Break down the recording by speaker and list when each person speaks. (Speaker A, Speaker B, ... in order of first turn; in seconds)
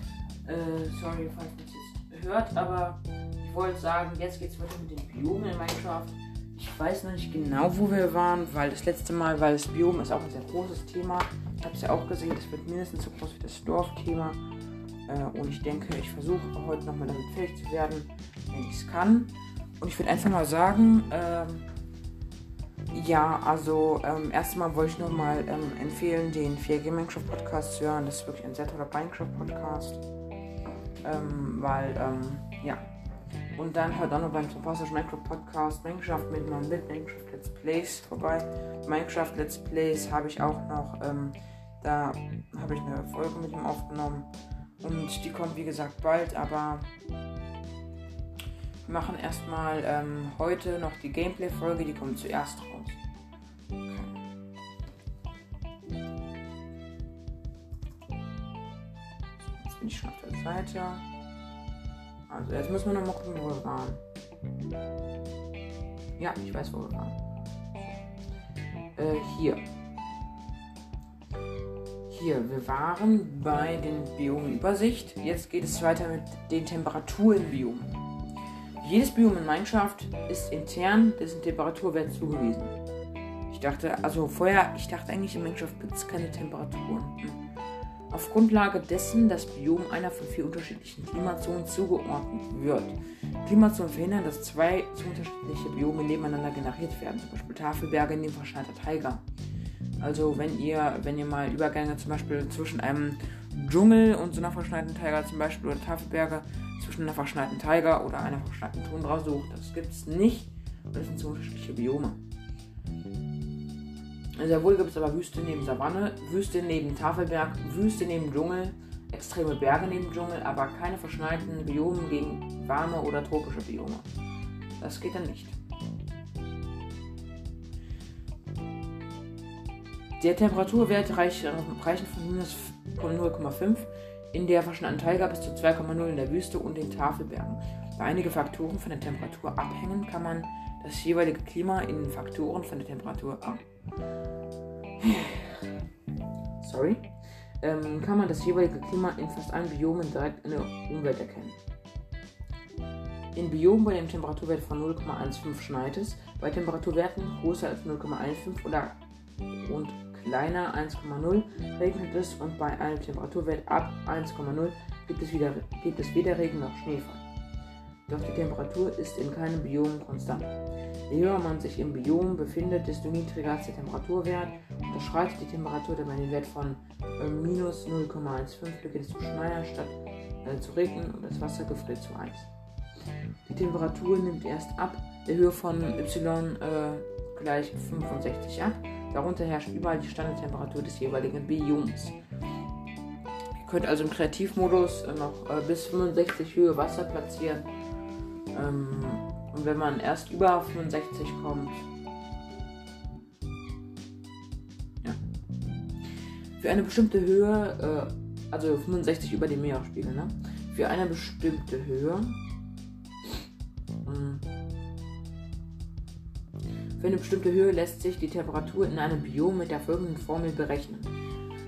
Speaker A: 0.5-14.4, 15.1-21.6, 22.9-30.0, 31.0-32.8, 33.5-44.3, 44.8-46.9, 48.9-53.0, 53.8-54.1, 59.4-61.0, 62.3-64.0, 66.2-67.2, 69.0-69.6, 72.1-78.0, 78.8-82.7, 83.5-87.4, 88.1-99.2, 100.0-112.2, 114.4-124.0, 124.8-125.6, 130.2-143.6, 145.0-145.7, 146.6-147.1, 147.6-151.6, 153.3-159.0, 159.5-167.2, 168.1-170.5, 171.1-182.5, 183.4-192.2, 193.6-197.7, 198.5-201.9, 206.6-212.4, 214.0-214.4, 217.0-221.1